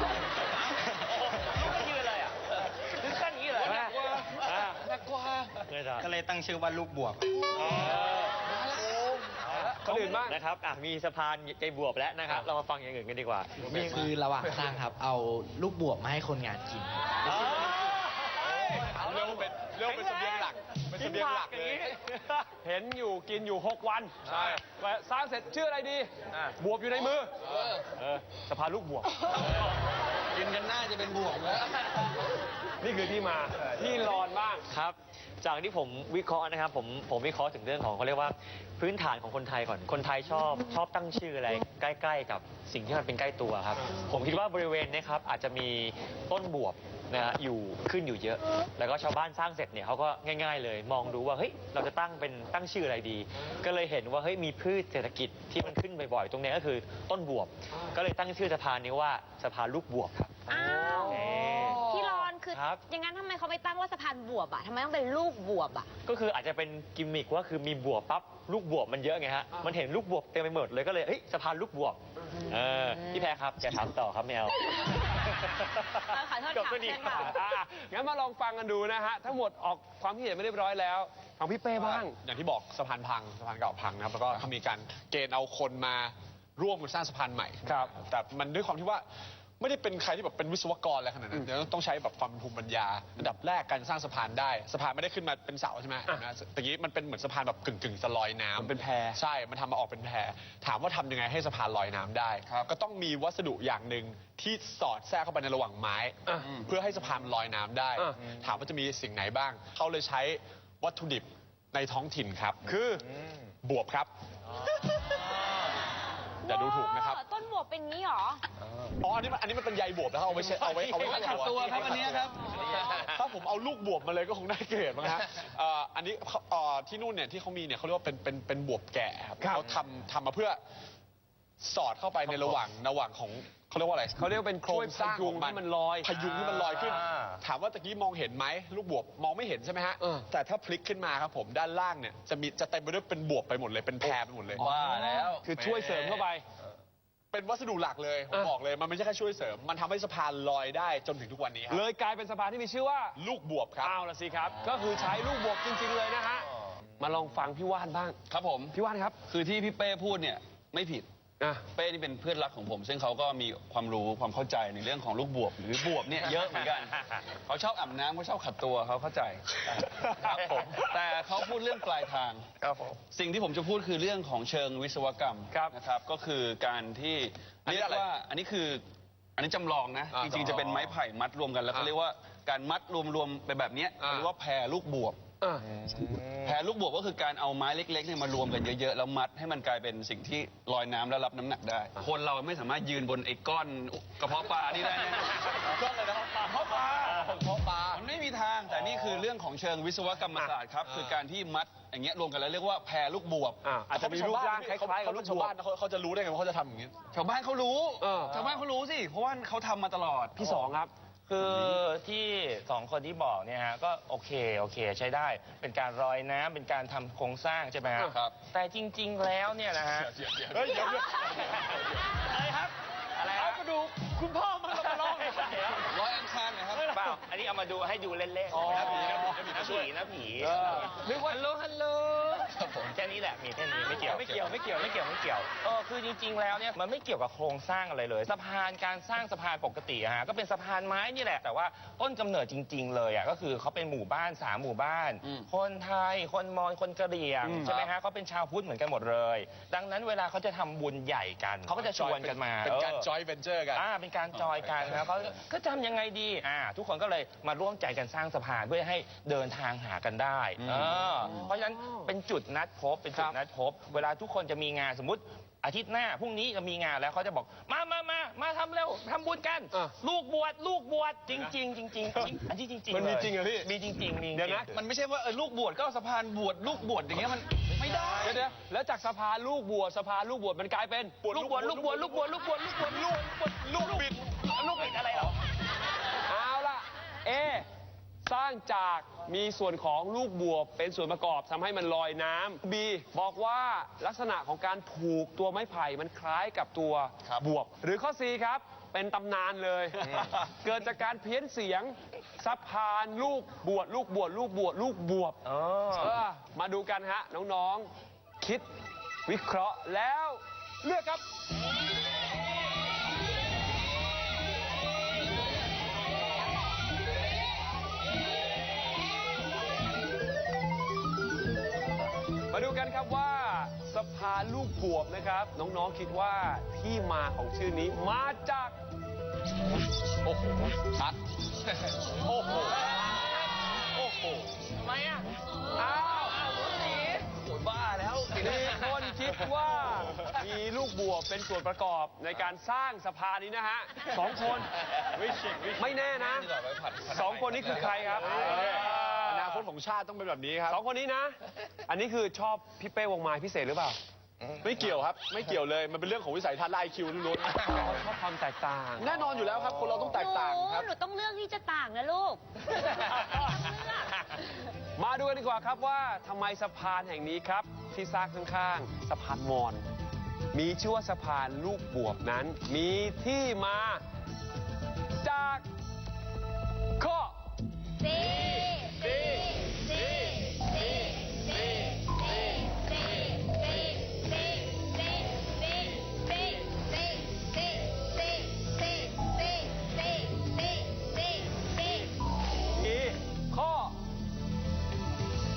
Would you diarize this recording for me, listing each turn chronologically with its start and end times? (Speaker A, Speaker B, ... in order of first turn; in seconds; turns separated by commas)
Speaker A: 1.2-4.2, Speaker B: 3.6-4.4, Speaker C: 4.5-4.8, Speaker C: 5.7-6.1, Speaker D: 6.0-7.2, Speaker C: 7.8-8.2, Speaker C: 9.7-14.1, Speaker B: 9.8-10.4, Speaker D: 13.9-17.1, Speaker E: 18.6-21.9, Speaker B: 21.0-21.8, Speaker B: 22.5-29.1, Speaker F: 30.3-31.8, Speaker B: 32.8-34.6, Speaker C: 34.7-62.8, Speaker G: 60.5-61.3, Speaker B: 60.7-62.3, Speaker G: 61.8-65.9, Speaker C: 66.1-77.4, Speaker G: 76.1-77.3, Speaker B: 77.1-82.2, Speaker E: 81.8-89.0, Speaker B: 87.7-87.9, Speaker E: 89.6-112.6, Speaker B: 98.6-99.2, Speaker F: 102.5-102.7, Speaker B: 112.7-113.0, Speaker E: 113.6-114.1, Speaker E: 116.4-117.2, Speaker G: 116.4-118.4, Speaker E: 119.0-122.2, Speaker F: 121.0-122.5, Speaker E: 123.0-130.6, Speaker B: 129.4-129.7, Speaker E: 131.6-144.6, Speaker B: 132.2-132.6, Speaker B: 134.2-136.4, Speaker A: 136.5-137.4, Speaker B: 144.0-146.4, Speaker F: 144.6-146.3, Speaker E: 147.3-151.8, Speaker B: 151.7-153.2, Speaker E: 153.2-154.0, Speaker B: 153.8-158.2, Speaker F: 158.3-158.8, Speaker B: 158.7-159.2, Speaker F: 159.3-161.1, Speaker B: 161.4-161.7, Speaker F: 161.7-172.5, Speaker A: 166.3-166.9, Speaker A: 169.9-170.8, Speaker A: 172.6-173.0, Speaker F: 173.1-178.8, Speaker B: 175.5-175.8, Speaker E: 177.7-178.1, Speaker F: 179.4-185.2, Speaker E: 180.1-181.0, Speaker E: 184.0-184.3, Speaker F: 186.4-195.7, Speaker E: 195.7-198.0, Speaker F: 197.9-203.6, Speaker B: 203.6-205.5, Speaker E: 203.9-207.0, Speaker F: 207.1-210.5, Speaker B: 208.0-208.5, Speaker B: 210.4-210.9, Speaker A: 211.3-220.2, Speaker F: 211.4-211.8, Speaker F: 218.1-218.4, Speaker F: 220.0-220.7, Speaker E: 220.7-221.0, Speaker A: 220.7-221.8, Speaker A: 222.3-223.8, Speaker B: 223.4-225.6, Speaker A: 224.7-225.8, Speaker F: 225.8-226.9, Speaker A: 226.8-253.1, Speaker B: 228.5-229.0, Speaker E: 228.7-229.8, Speaker B: 230.7-231.3, Speaker F: 232.6-232.9, Speaker F: 234.2-234.5, Speaker F: 245.2-245.5, Speaker B: 247.4-247.7, Speaker E: 251.7-253.9, Speaker A: 253.7-274.8, Speaker F: 254.3-255.1, Speaker F: 260.6-261.4, Speaker B: 272.9-273.5, Speaker F: 273.4-273.7, Speaker B: 274.3-274.7, Speaker F: 274.7-278.3, Speaker B: 278.2-282.0, Speaker A: 281.2-285.3, Speaker E: 281.3-282.4, Speaker E: 283.7-284.1, Speaker B: 286.3-287.7, Speaker B: 288.2-305.4, Speaker A: 305.4-306.2, Speaker B: 306.0-307.9, Speaker B: 308.4-308.7, Speaker B: 309.3-311.2, Speaker B: 322.5-328.8, Speaker A: 334.8-335.2, Speaker B: 335.8-336.4, Speaker A: 336.5-337.2, Speaker F: 337.4-338.6, Speaker B: 338.4-346.5, Speaker F: 345.5-348.5, Speaker B: 347.1-349.6, Speaker E: 348.4-350.8, Speaker B: 350.7-354.0, Speaker E: 354.6-357.8, Speaker B: 357.7-359.1, Speaker E: 359.0-360.9, Speaker G: 360.1-362.4, Speaker B: 365.0-369.9, Speaker B: 370.5-374.0, Speaker B: 375.2-375.7, Speaker B: 377.0-377.4, Speaker G: 378.3-392.1, Speaker B: 392.8-393.9